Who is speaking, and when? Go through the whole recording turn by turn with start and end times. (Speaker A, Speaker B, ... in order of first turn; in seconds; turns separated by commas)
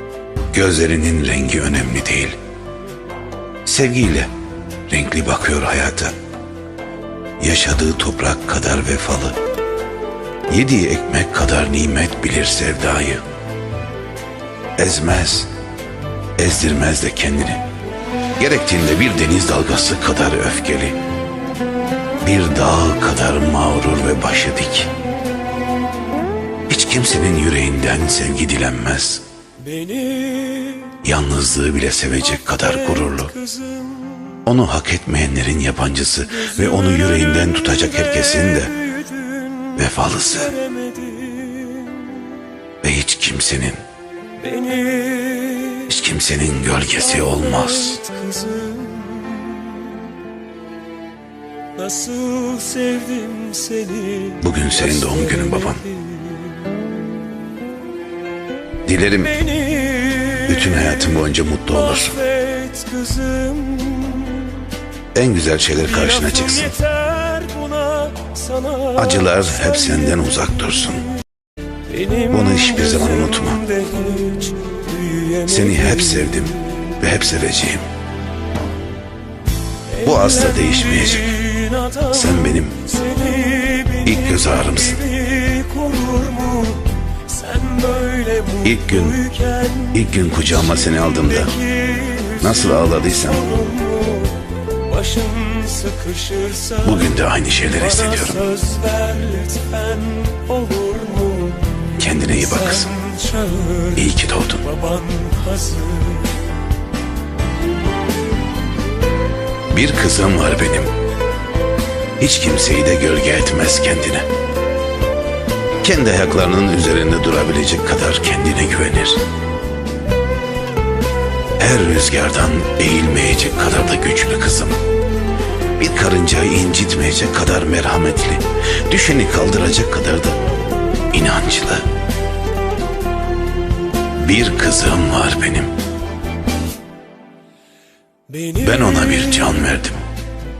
Speaker A: 0.5-2.4, Speaker A: 3.7-4.3, Speaker A: 4.9-6.1, Speaker A: 7.4-9.3, Speaker A: 10.5-13.2, Speaker A: 14.8-15.5, Speaker A: 16.4-17.6, Speaker A: 18.4-21.0, Speaker A: 22.2-24.9, Speaker A: 26.7-29.2, Speaker B: 29.6-30.9, Speaker A: 31.0-33.3, Speaker B: 32.5-34.4, Speaker A: 34.5-38.8, Speaker B: 36.5-39.6, Speaker A: 39.8-40.5, Speaker B: 40.5-42.2, Speaker A: 42.8-43.8, Speaker B: 44.4-45.9, Speaker A: 45.8-48.0, Speaker B: 47.1-49.9, Speaker B: 51.8-56.7, Speaker A: 54.4-55.9, Speaker A: 58.9-59.4, Speaker B: 59.4-60.9, Speaker A: 60.4-62.2, Speaker B: 62.0-64.7, Speaker A: 65.1-66.8, Speaker B: 65.9-69.4, Speaker A: 69.0-71.1, Speaker B: 71.9-76.6, Speaker A: 72.3-73.6, Speaker A: 75.5-77.9, Speaker A: 80.0-81.5, Speaker B: 80.0-90.0, Speaker A: 82.1-82.8, Speaker A: 84.0-85.0, Speaker A: 88.6-89.2, Speaker A: 89.9-91.6, Speaker B: 91.3-97.1, Speaker A: 92.4-93.5, Speaker A: 96.8-98.5, Speaker B: 97.8-101.7, Speaker A: 102.0-103.0, Speaker B: 102.5-104.0, Speaker A: 103.9-104.7, Speaker B: 104.7-106.4, Speaker A: 109.7-110.9, Speaker A: 112.2-114.3, Speaker A: 115.8-119.2, Speaker A: 121.6-124.8, Speaker A: 125.8-130.4, Speaker A: 131.1-131.8, Speaker A: 134.2-135.7, Speaker B: 138.3-139.5, Speaker A: 138.6-140.0